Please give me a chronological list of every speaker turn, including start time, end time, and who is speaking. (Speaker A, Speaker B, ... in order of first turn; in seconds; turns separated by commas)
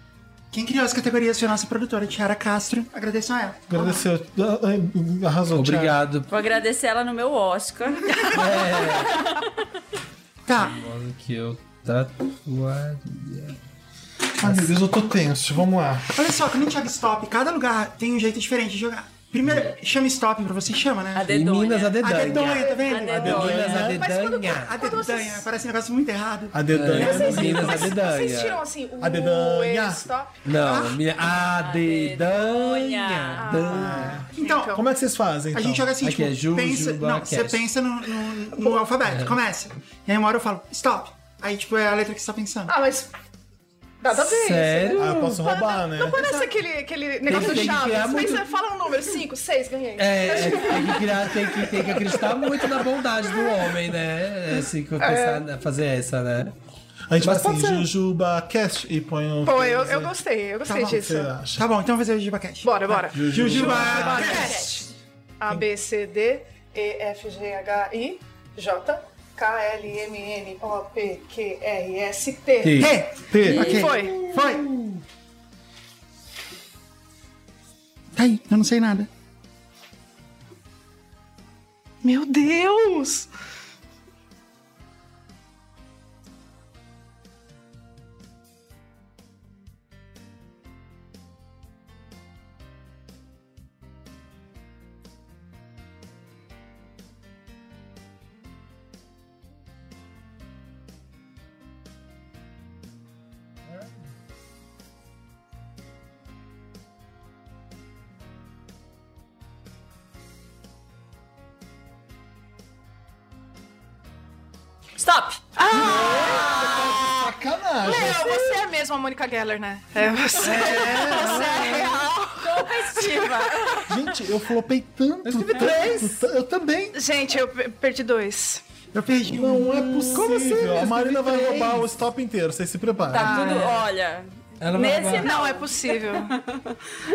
Speaker A: 0.5-4.0, Speaker B: 3.7-6.0, Speaker C: 5.5-6.3, Speaker D: 6.3-9.5, Speaker A: 8.1-8.4, Speaker C: 8.3-9.2, Speaker A: 10.5-10.8, Speaker C: 10.6-13.6, Speaker B: 14.4-16.2, Speaker C: 14.4-14.7, Speaker A: 16.1-21.3, Speaker D: 21.1-23.9, Speaker C: 21.3-24.7, Speaker A: 22.0-23.6, Speaker E: 22.4-25.5, Speaker B: 23.1-24.1, Speaker A: 24.4-27.9, Speaker B: 26.5-27.8, Speaker C: 26.7-28.6, Speaker E: 26.9-30.3, Speaker B: 29.0-30.1, Speaker C: 30.4-34.2, Speaker A: 30.6-31.0, Speaker D: 31.3-33.6, Speaker E: 33.4-34.8, Speaker B: 33.7-35.9, Speaker A: 33.8-34.8, Speaker A: 35.5-42.7, Speaker C: 36.0-37.7, Speaker C: 39.0-39.4, Speaker E: 42.7-43.1, Speaker E: 44.0-52.8, Speaker C: 44.1-45.4, Speaker B: 45.0-46.3, Speaker A: 46.1-46.5, Speaker C: 47.2-48.5, Speaker C: 50.0-56.5, Speaker E: 55.0-55.4, Speaker B: 57.1-60.1, Speaker C: 57.2-57.8, Speaker E: 59.4-61.3, Speaker A: 60.7-64.7, Speaker B: 60.7-61.6, Speaker E: 62.6-64.9, Speaker B: 63.1-64.2, Speaker C: 63.5-64.2, Speaker D: 63.8-64.9, Speaker E: 65.4-72.9, Speaker C: 72.6-72.9, Speaker A: 72.8-74.7, Speaker B: 73.3-73.8, Speaker C: 73.5-75.0, Speaker E: 73.5-74.2, Speaker A: 78.1-79.1, Speaker E: 82.0-83.3, Speaker D: 115.0-116.4, Speaker E: 115.6-117.2, Speaker B: 115.7-118.6, Speaker E: 117.8-123.8, Speaker C: 120.3-122.0, Speaker B: 120.6-121.9, Speaker D: 122.4-124.1, Speaker B: 123.9-127.0, Speaker C: 125.3-126.1, Speaker E: 125.4-126.1, Speaker E: 126.9-128.6, Speaker A: 128.9-130.5, Speaker B: 129.3-133.6, Speaker C: 129.9-131.9, Speaker D: 133.1-136.7, Speaker E: 133.1-133.8, Speaker C: 134.6-135.3, Speaker E: 135.2-136.4